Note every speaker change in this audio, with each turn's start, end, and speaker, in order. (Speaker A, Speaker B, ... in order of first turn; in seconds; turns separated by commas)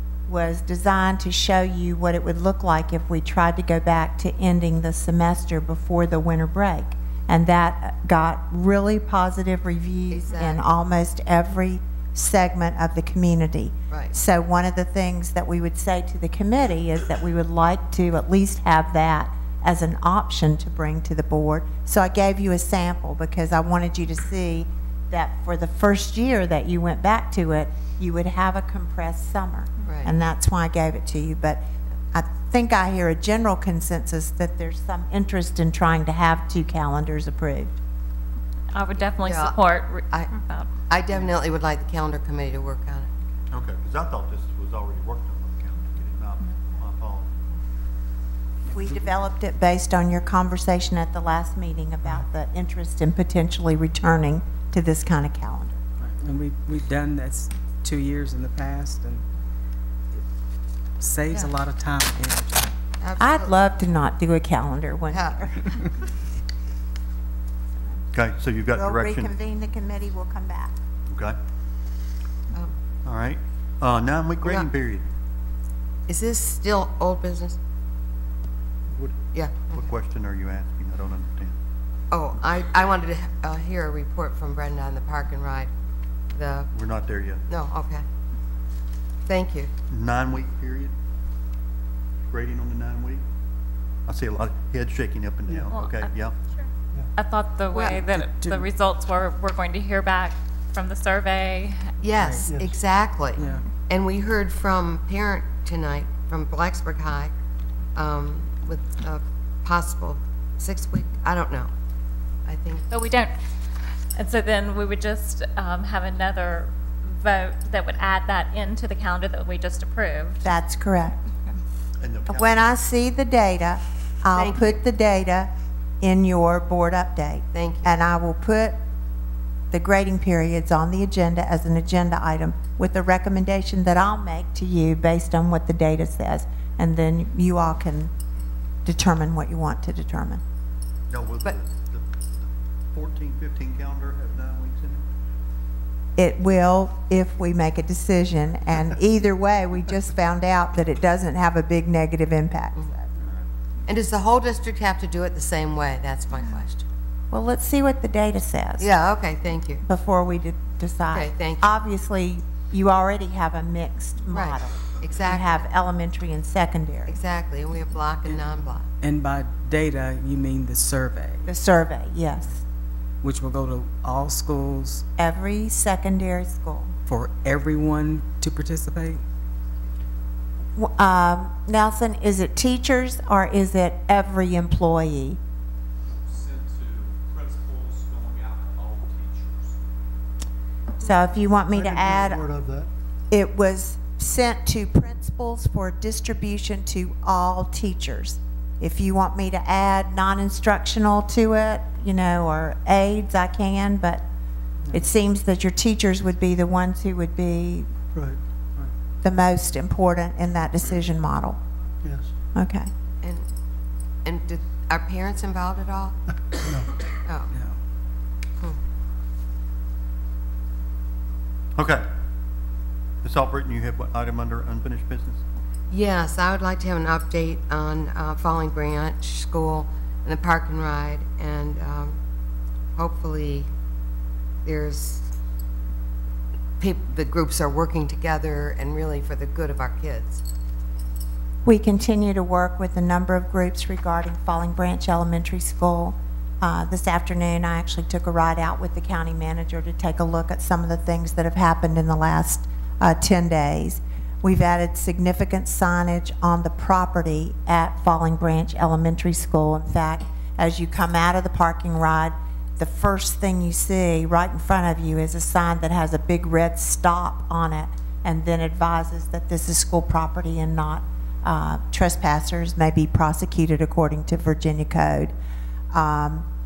Speaker A: 0.3-37.8, Speaker B: 10.1-10.6, Speaker B: 29.8-30.1, Speaker C: 38.7-40.7, Speaker B: 39.2-40.3, Speaker B: 40.9-43.2, Speaker D: 43.5-47.3, Speaker A: 48.7-55.8, Speaker E: 48.8-49.1, Speaker E: 56.0-59.3, Speaker E: 61.0-62.7, Speaker B: 63.0-63.6, Speaker A: 63.2-66.0, Speaker B: 65.1-65.4, Speaker D: 68.1-69.3, Speaker A: 68.8-70.8, Speaker D: 71.1-71.4, Speaker B: 72.5-72.8, Speaker D: 73.0-75.1, Speaker B: 76.1-77.6, Speaker D: 78.9-79.2, Speaker B: 79.3-79.9, Speaker D: 79.7-81.5, Speaker B: 82.1-85.7, Speaker B: 86.3-86.7, Speaker D: 86.7-87.4, Speaker B: 87.5-88.0, Speaker B: 89.3-89.7, Speaker D: 89.9-90.9, Speaker D: 92.3-93.2, Speaker D: 94.1-96.3, Speaker C: 95.7-96.1, Speaker C: 97.2-101.9, Speaker B: 97.7-98.0, Speaker E: 98.3-98.6, Speaker B: 102.0-107.3, Speaker E: 102.2-102.5, Speaker F: 102.5-102.7, Speaker E: 103.3-103.7, Speaker B: 108.0-111.7, Speaker B: 112.5-112.9, Speaker C: 112.9-113.4, Speaker C: 114.2-120.4, Speaker A: 120.4-121.2, Speaker D: 122.0-122.7, Speaker A: 122.3-128.8, Speaker B: 124.3-124.8, Speaker B: 127.5-127.9, Speaker A: 129.7-138.1, Speaker A: 138.8-140.4, Speaker D: 141.1-142.1, Speaker D: 142.9-145.1, Speaker A: 146.2-153.1, Speaker B: 153.9-156.9, Speaker A: 157.3-158.9, Speaker B: 158.8-159.8, Speaker A: 159.8-167.2, Speaker B: 161.1-161.7, Speaker B: 164.3-165.6, Speaker B: 167.1-168.9, Speaker E: 169.0-171.5, Speaker A: 171.5-172.6, Speaker E: 173.2-175.1, Speaker A: 175.2-176.9, Speaker E: 177.1-179.2, Speaker A: 180.8-185.4, Speaker G: 186.2-189.8, Speaker A: 191.0-192.4, Speaker F: 191.7-192.9, Speaker A: 193.3-204.2, Speaker A: 204.9-207.9, Speaker F: 208.1-208.4, Speaker A: 209.2-211.6, Speaker F: 212.0-212.3, Speaker A: 212.6-212.9, Speaker B: 213.2-213.5, Speaker B: 214.2-216.2, Speaker F: 216.6-216.9, Speaker B: 217.2-217.5, Speaker E: 217.5-217.8, Speaker D: 221.8-222.1, Speaker D: 223.2-225.4, Speaker B: 225.9-232.2, Speaker B: 233.0-233.7, Speaker B: 234.7-235.3, Speaker B: 236.8-240.4, Speaker A: 241.7-275.3, Speaker A: 275.9-276.5